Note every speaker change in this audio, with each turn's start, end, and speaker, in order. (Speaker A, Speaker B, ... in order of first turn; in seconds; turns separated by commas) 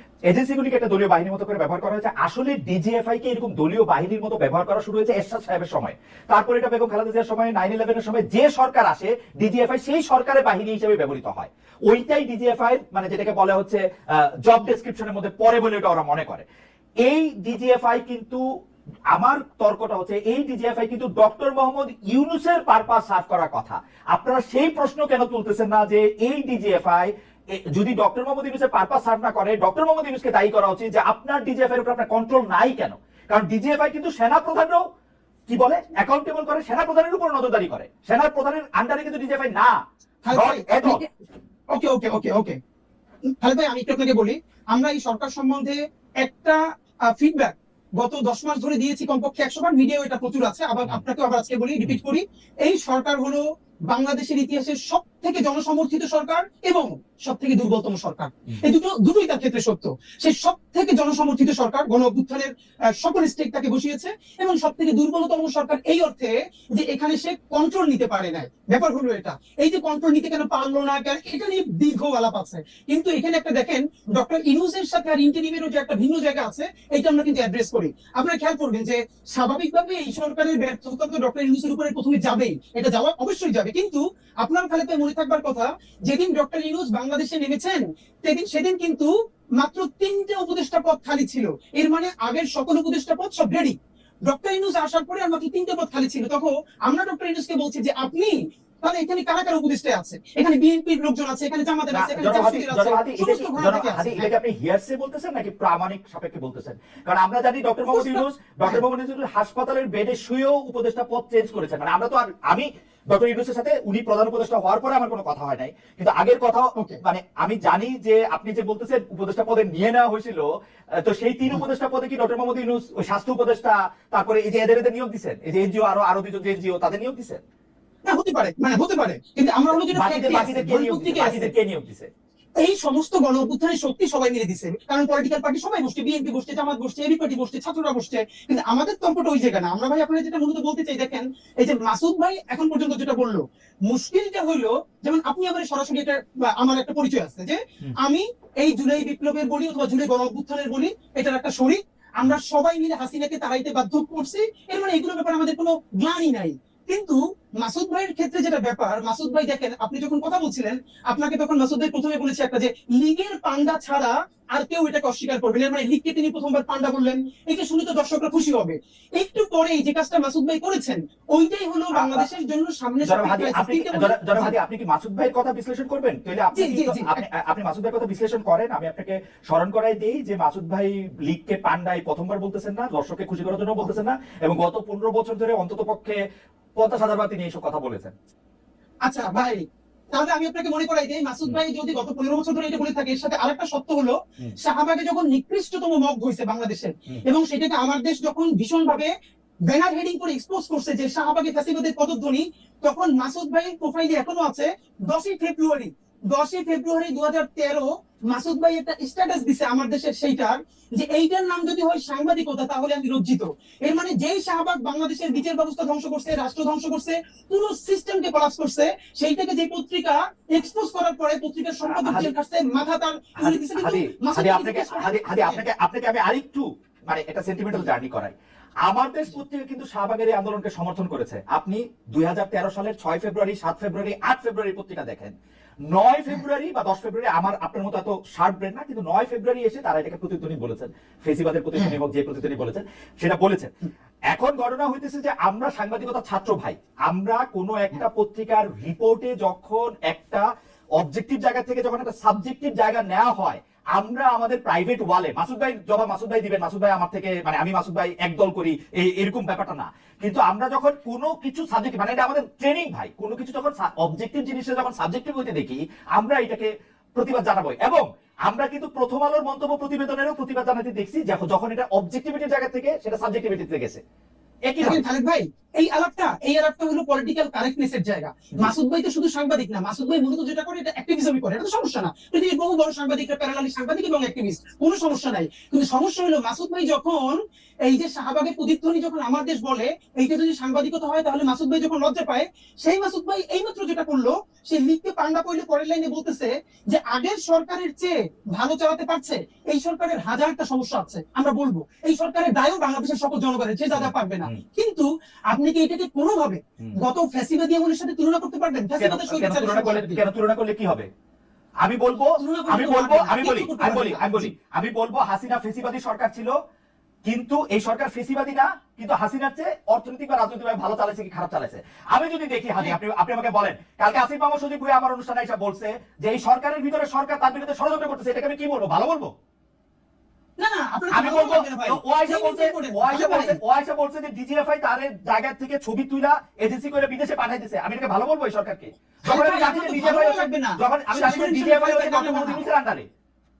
Speaker A: 0.2-16.4, Speaker A: 17.0-18.4, Speaker A: 19.1-34.8, Speaker A: 35.5-39.8, Speaker B: 40.2-41.1, Speaker A: 40.3-41.0, Speaker B: 41.7-42.6, Speaker B: 43.3-104.3, Speaker A: 101.9-127.4, Speaker B: 107.9-108.8, Speaker B: 116.7-117.0, Speaker B: 128.1-131.5, Speaker A: 129.7-132.1, Speaker B: 132.6-174.5, Speaker A: 171.9-172.2, Speaker A: 173.0-186.2, Speaker B: 176.5-177.2, Speaker A: 186.8-188.1, Speaker B: 189.0-199.1, Speaker B: 199.7-225.6, Speaker A: 221.8-222.3, Speaker A: 223.4-235.3, Speaker A: 235.9-243.7, Speaker A: 244.3-274.0, Speaker A: 274.6-275.0, Speaker B: 274.8-310.2, Speaker A: 303.9-304.6, Speaker A: 309.0-311.1, Speaker A: 311.8-316.5, Speaker B: 312.4-314.4, Speaker A: 317.2-329.3, Speaker B: 330.6-333.6, Speaker A: 331.1-343.1, Speaker B: 339.3-342.6